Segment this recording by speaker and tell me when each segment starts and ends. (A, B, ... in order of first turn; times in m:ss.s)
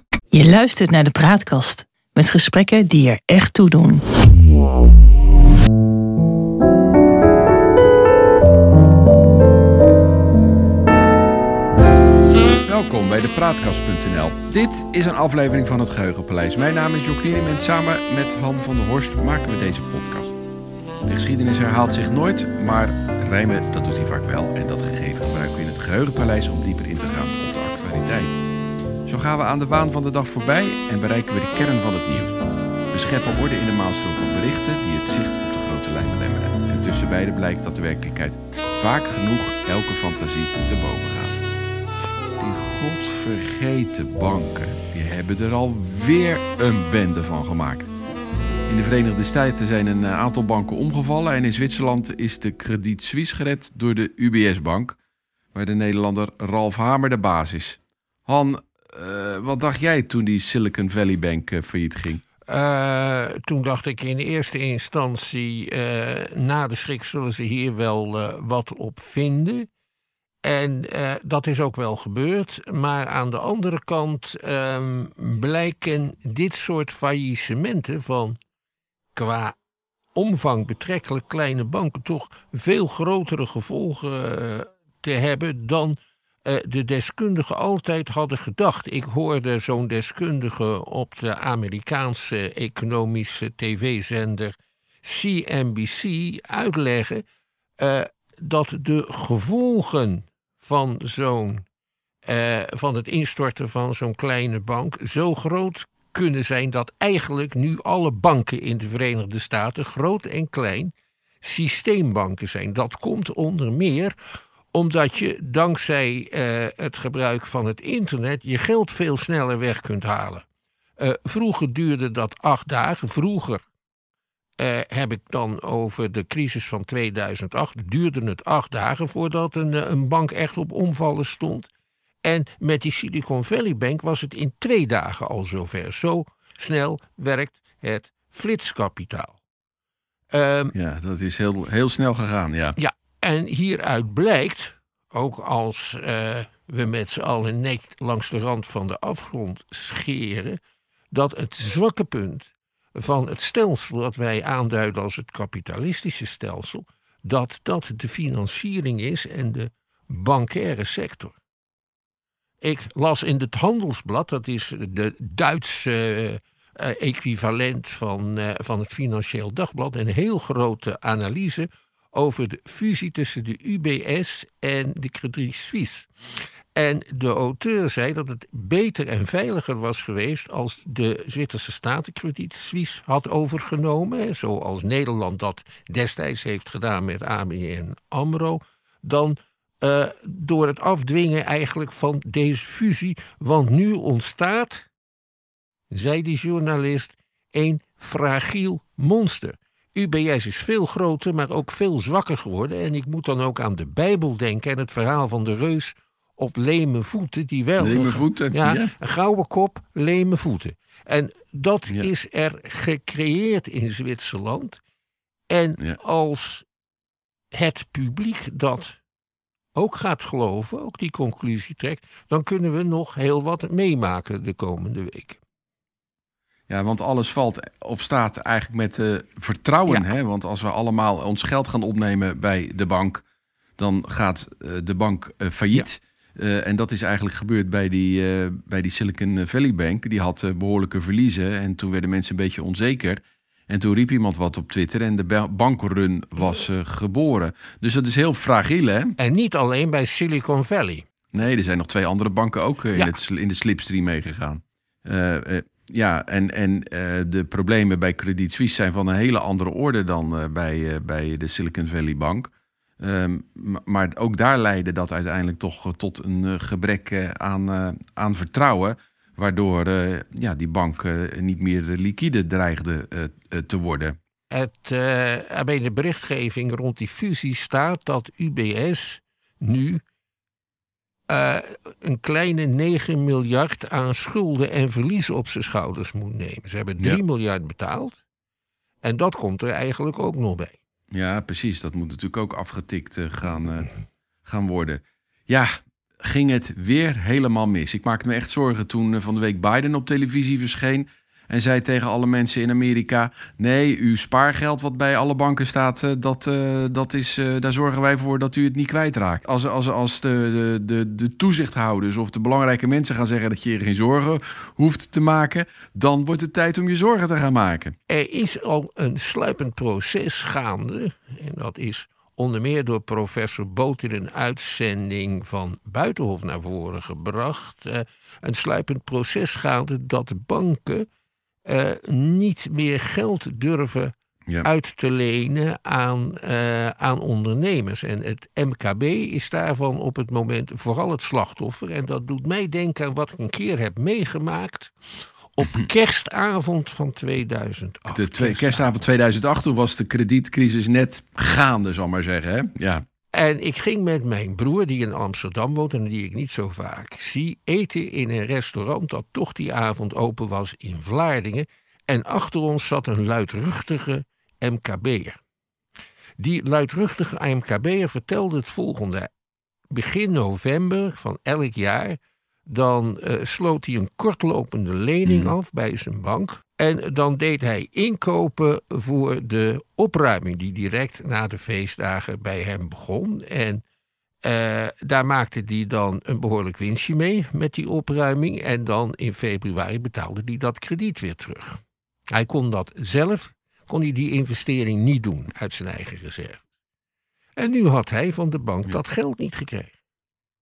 0:00.3-0:04.0 A
0:12.6-0:20.3 B
0:21.0-0:28.4 B
0:29.0-0:41.4 B
0:42.4-0:47.9 B
0:48.7-0:55.0 B
0:55.5-1:02.2 B
1:02.5-1:09.7 C
1:10.4-1:18.4 C
1:19.1-1:19.6 C
1:20.1-1:37.2 C
1:37.8-1:41.6 C
1:42.2-1:54.1 C
1:54.7-2:00.4 C
2:01.0-2:03.6 C
2:04.6-2:11.7 C
2:12.2-2:19.4 C
2:20.3-2:20.7 C
2:20.7-2:22.8 B
2:22.8-2:30.6 C
2:31.1-2:41.4 C
2:42.6-2:56.1 C
2:56.7-3:14.9 C
3:15.9-3:34.8 C
3:27.8-3:28.9 B
3:35.5-3:36.6 C
3:37.5-3:39.0 C
3:39.7-3:45.4 C
3:46.7-3:53.2 B
3:53.8-4:09.2 B
4:09.2-4:11.0 C
4:11.3-4:34.2 B
4:34.5-4:40.0 C
4:41.3-4:48.2 C
4:49.0-4:50.8 C
4:51.1-4:53.9 B
4:54.4-5:18.0 B
5:18.1-5:31.1 C
5:31.6-5:44.9 C
5:45.5-5:49.0 C
5:48.1-5:53.0 B
5:53.3-6:05.4 C
6:06.4-6:09.3 C
6:09.9-6:23.8 C
6:15.2-6:15.5 B
6:24.4-6:36.6 C
6:37.6-6:39.9 C